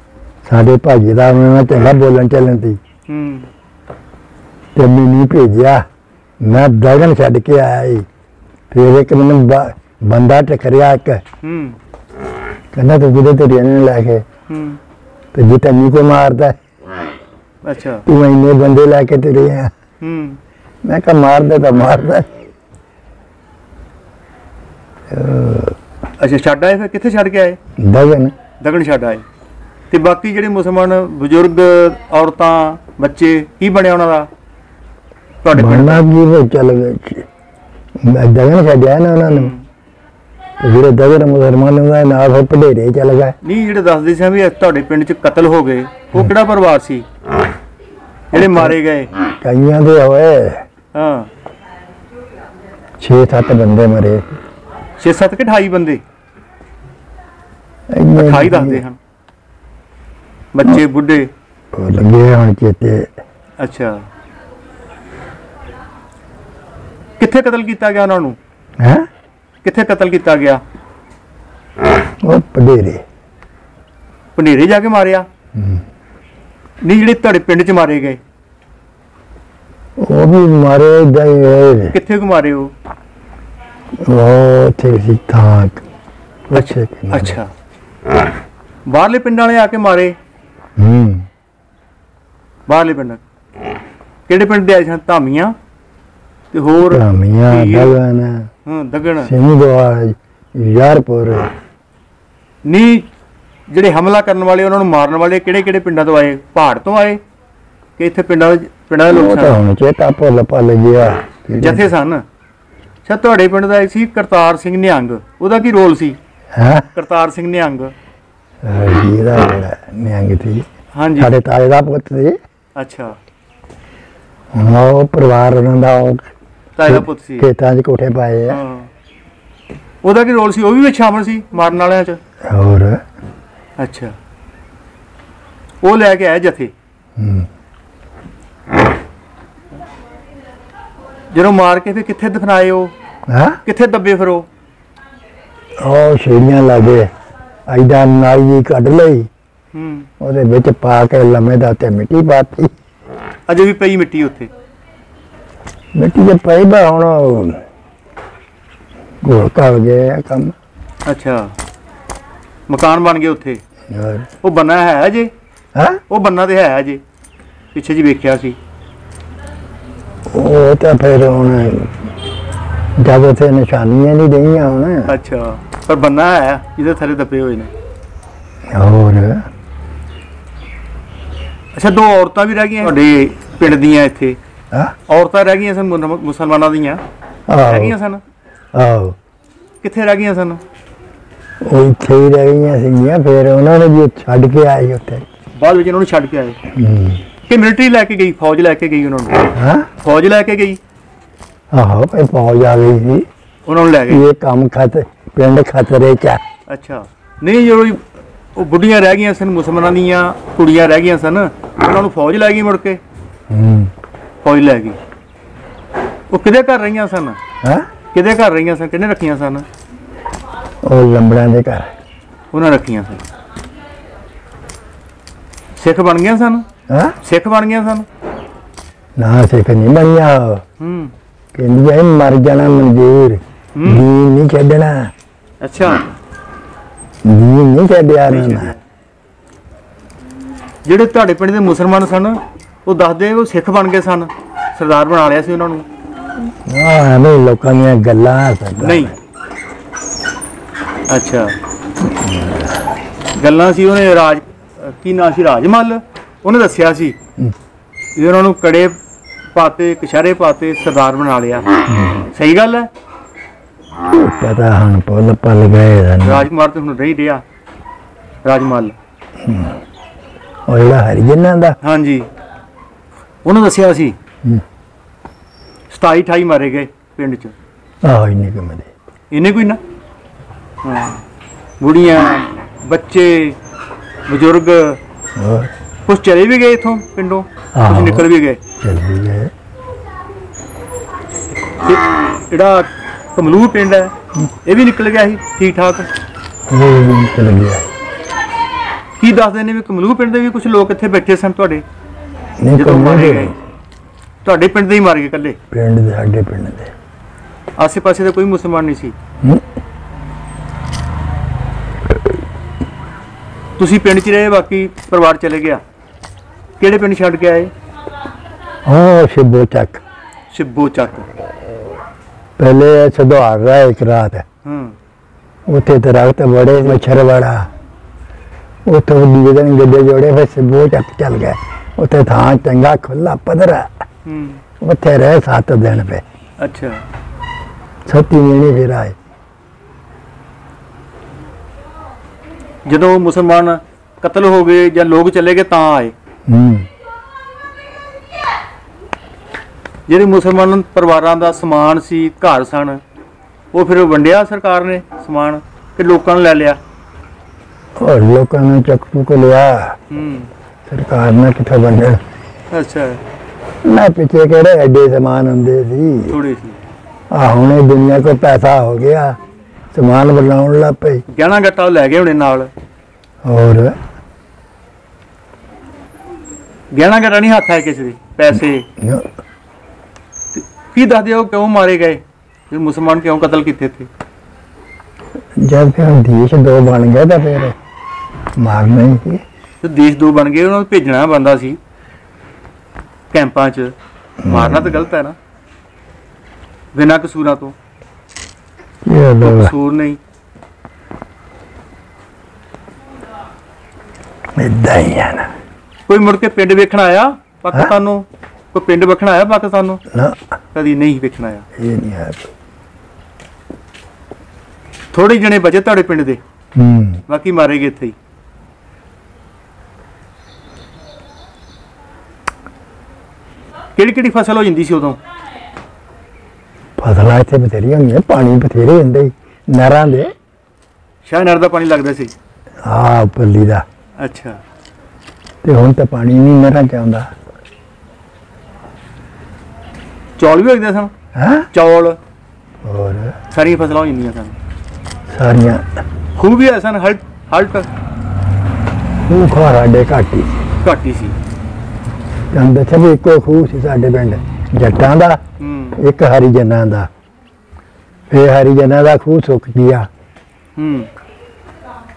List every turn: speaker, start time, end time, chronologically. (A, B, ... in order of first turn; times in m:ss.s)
0:00.5-0:02.8 A
0:03.1-0:03.5 B
0:04.8-0:05.8 A
0:06.4-0:08.1 A
0:08.7-0:11.2 A
0:11.4-0:11.8 B
0:12.7-0:14.2 A
0:14.5-0:14.8 B
0:15.3-0:16.6 A
0:17.6-0:18.0 B
0:18.1-0:19.7 A
0:20.0-0:20.4 B
0:20.8-0:22.3 A
0:25.1-0:25.8 A
0:26.2-0:27.6 B
0:27.8-0:28.3 A
0:28.6-0:29.2 B
0:29.9-0:34.3 B
0:35.4-0:36.0 B
0:35.5-0:37.3 A
0:38.0-0:39.5 A
0:39.3-0:39.6 B
0:40.6-0:43.4 A
0:43.4-0:47.1 B
0:48.3-0:49.1 B
0:48.3-0:48.8 A
0:49.4-0:50.6 A
0:50.9-0:51.3 B
0:53.0-0:54.4 A
0:55.0-0:56.0 B
0:57.9-0:58.8 A
0:58.2-0:59.0 B
1:00.5-1:01.3 B
1:01.7-1:03.1 A
1:03.6-1:04.0 B
1:07.2-1:08.4 B
1:08.8-1:09.1 A
1:09.6-1:10.6 B
1:12.2-1:13.0 A
1:14.4-1:15.3 B
1:15.6-1:15.8 A
1:16.8-1:18.2 B
1:20.0-1:22.0 A
1:21.9-1:22.7 B
1:24.0-1:25.8 A
1:26.5-1:27.4 A
1:26.5-1:27.5 B
1:28.9-1:30.1 B
1:30.8-1:31.3 A
1:32.7-1:33.2 B
1:34.3-1:35.6 B
1:36.5-1:38.0 B
1:36.9-1:38.5 A
1:38.7-1:39.3 B
1:39.2-1:41.5 A
1:42.6-1:43.1 B
1:43.7-1:47.2 B
1:48.0-1:49.6 B
1:49.1-1:51.9 A
1:51.6-1:52.2 B
1:53.0-1:56.2 B
1:56.5-1:56.9 A
1:56.9-1:57.9 B
1:58.6-2:00.7 A
2:00.9-2:01.3 B
2:01.2-2:02.4 A
2:02.8-2:03.2 B
2:04.5-2:06.3 A
2:06.8-2:07.5 B
2:06.9-2:08.6 A
2:08.5-2:08.9 B
2:10.0-2:12.2 B
2:12.4-2:13.0 A
2:13.8-2:14.1 B
2:15.8-2:16.7 B
2:17.2-2:17.5 A
2:21.3-2:22.9 B
2:23.3-2:23.6 A
2:23.6-2:24.5 B
2:25.8-2:27.1 A
2:27.7-2:29.3 A
2:29.7-2:30.1 B
2:30.2-2:32.7 A
2:33.5-2:34.5 B
2:36.0-2:37.6 A
2:39.2-2:40.6 A
2:41.1-2:41.5 B
2:42.7-2:43.6 B
2:43.9-2:44.3 A
2:44.4-2:45.3 B
2:45.8-2:46.0 A
2:46.1-2:47.0 B
2:47.7-2:48.6 B
2:50.3-2:52.1 A
2:53.0-2:55.1 A
2:55.1-2:57.7 B
2:58.7-2:59.5 A
3:01.8-3:04.4 B
3:05.1-3:07.0 B
3:07.5-3:08.0 A
3:07.6-3:08.2 B
3:08.7-3:09.2 A
3:09.8-3:10.6 B
3:11.6-3:15.2 A
3:15.6-3:16.6 B
3:16.7-3:17.2 A
3:17.5-3:20.8 B
3:19.6-3:19.9 A
3:21.7-3:23.3 A
3:23.7-3:24.2 B
3:24.1-3:26.4 A
3:26.7-3:28.0 B
3:28.6-3:33.0 B
3:33.5-3:33.9 A
3:34.4-3:35.0 B
3:36.3-3:37.4 B
3:37.6-3:37.9 A
3:38.1-3:39.6 B
3:40.8-3:41.9 A
3:42.5-3:43.2 B
3:45.8-3:46.7 B
3:46.9-3:47.2 A
3:47.2-3:48.1 B
3:49.2-3:50.6 A
3:50.8-3:51.1 B
3:51.5-3:55.1 A
3:53.8-3:54.0 B
3:55.6-3:56.1 B
3:57.2-3:58.7 A
3:58.3-3:58.8 B
4:00.8-4:05.9 B
4:06.6-4:09.2 A
4:08.8-4:09.1 B
4:11.1-4:11.6 B
4:12.0-4:12.8 A
4:13.4-4:17.2 B
4:18.2-4:19.0 B
4:19.5-4:21.6 B
4:21.9-4:22.3 A
4:22.3-4:22.9 B
4:24.1-4:26.5 A
4:26.2-4:27.4 B
4:28.4-4:29.0 B
4:29.4-4:29.8 A
4:30.7-4:31.8 A
4:31.8-4:32.3 B
4:33.4-4:34.2 B
4:35.9-4:37.5 B
4:38.0-4:38.9 A
4:39.3-4:39.8 B
4:40.8-4:41.2 B
4:41.8-4:43.6 B
4:44.3-4:45.0 B
4:45.4-4:45.7 A
4:46.1-4:48.6 B
4:47.8-4:48.3 A
4:48.8-4:49.5 A
4:51.8-4:54.1 B
4:54.6-4:56.1 B
4:56.7-4:57.9 A
4:59.2-5:01.8 B
5:02.6-5:03.6 A
5:02.8-5:03.5 B
5:04.4-5:05.6 B
5:05.7-5:06.9 A
5:07.8-5:09.2 B
5:13.8-5:15.8 B
5:16.8-5:17.7 B
5:18.9-5:20.0 A
5:20.5-5:21.3 B
5:22.6-5:24.4 A
5:24.6-5:25.0 B
5:25.7-5:27.7 A
5:28.8-5:33.9 A
5:34.2-5:34.6 B
5:34.8-5:36.2 A
5:36.6-5:37.0 B
5:38.1-5:39.2 A
5:42.8-5:46.1 B
5:46.5-5:46.9 A
5:50.1-5:53.0 B
5:53.7-5:56.8 B
5:58.0-6:00.0 A
6:00.1-6:00.5 B
6:00.9-6:02.2 A
6:02.7-6:03.2 B
6:03.8-6:06.4 A
6:06.3-6:06.8 B
6:07.3-6:09.4 A
6:09.9-6:11.2 A
6:11.3-6:12.7 B
6:13.4-6:14.0 A
6:16.9-6:18.9 B
6:19.0-6:19.3 A
6:20.5-6:24.1 B
6:25.6-6:27.8 A
6:28.6-6:29.4 A
6:29.8-6:31.8 B
6:33.3-6:35.4 B
6:34.4-6:35.0 A
6:36.9-6:37.8 B
6:39.0-6:39.7 A
6:39.4-6:40.2 B
6:44.6-6:45.5 A
6:46.1-6:50.0 B
6:50.1-6:50.4 A
6:50.7-6:51.7 B
6:51.8-6:52.5 A
6:55.1-6:56.4 B
6:56.8-6:57.2 A
6:57.3-6:58.2 B
7:04.0-7:05.2 B
7:07.0-7:10.3 A
7:11.2-7:12.3 B
7:12.8-7:13.8 A
7:14.2-7:14.6 B
7:15.6-7:17.3 A
7:20.4-7:21.1 B
7:21.4-7:21.7 A
7:21.7-7:22.2 B
7:22.8-7:23.4 A
7:23.5-7:24.6 B
7:25.3-7:26.0 A
7:26.4-7:27.9 B
7:29.2-7:30.6 A
7:30.8-7:31.4 B
7:32.5-7:35.4 A
7:35.6-7:36.0 B
7:36.0-7:37.1 A
7:38.3-7:40.1 A
7:40.8-7:41.1 B